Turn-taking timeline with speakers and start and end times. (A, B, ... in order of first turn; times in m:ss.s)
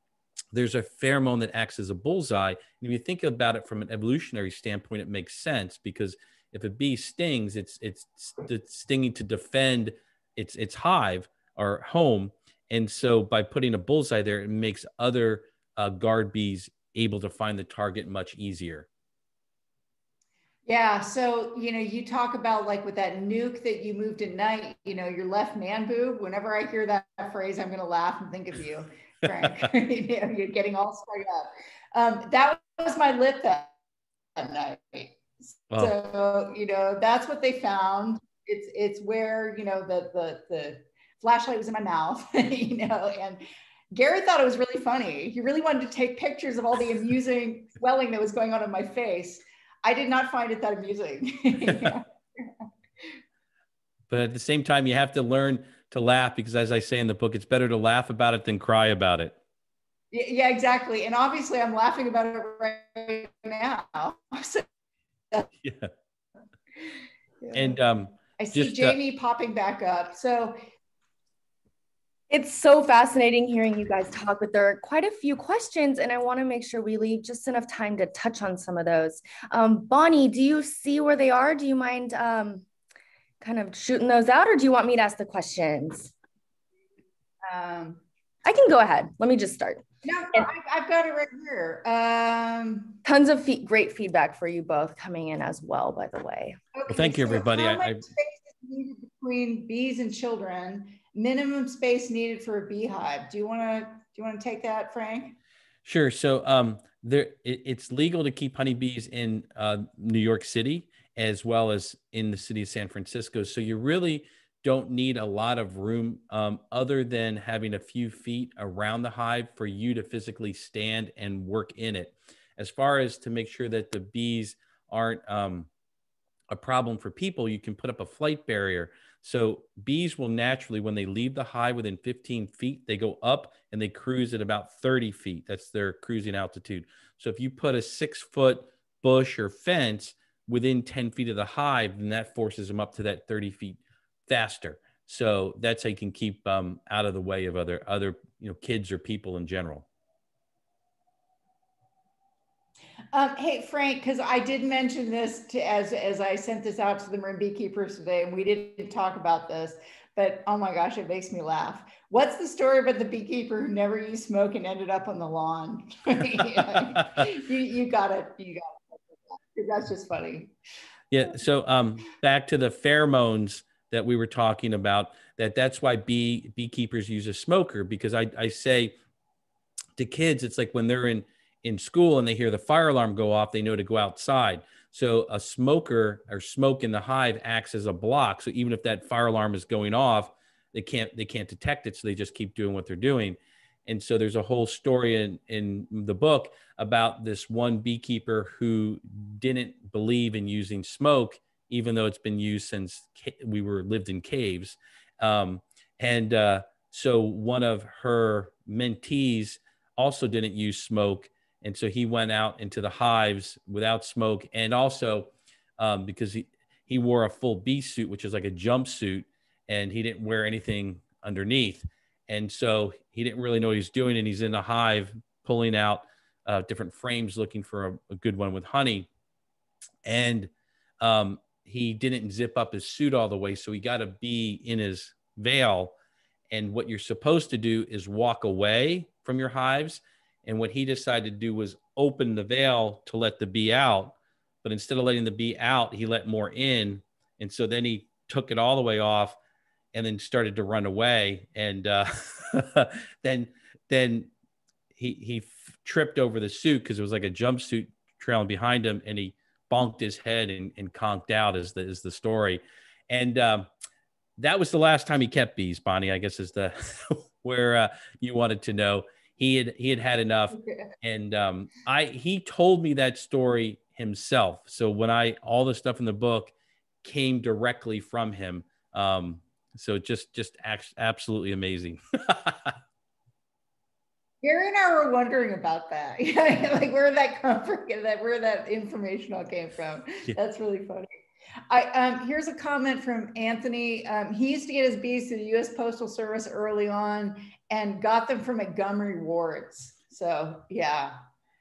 0:00.5-0:18.9 A
0:20.7-0:33.8 B
0:29.2-0:29.7 A
0:34.4-0:52.5 B
0:51.7-0:51.9 A
0:54.1-0:59.4 A
1:00.1-1:04.6 B
1:05.6-1:05.9 A
1:07.4-1:07.8 B
1:07.5-1:09.0 A
1:08.4-1:10.6 B
1:12.3-1:22.7 C
1:23.4-1:26.1 C
1:27.4-1:28.0 B
1:28.4-1:29.8 C
1:30.0-1:33.0 B
1:33.0-1:36.6 C
1:36.8-1:45.4 B
1:36.9-1:38.0 A
1:45.8-2:05.7 A
2:06.5-2:29.8 A
2:33.1-2:50.6 B
2:46.4-2:47.3 A
2:51.1-2:59.0 A
3:00.0-3:49.1 A
3:50.0-3:56.0 A
3:56.5-4:09.4 A
4:09.9-4:14.3 A
4:15.0-4:23.7 A
4:24.4-4:42.8 A
4:44.4-4:51.1 B
4:51.7-5:01.2 B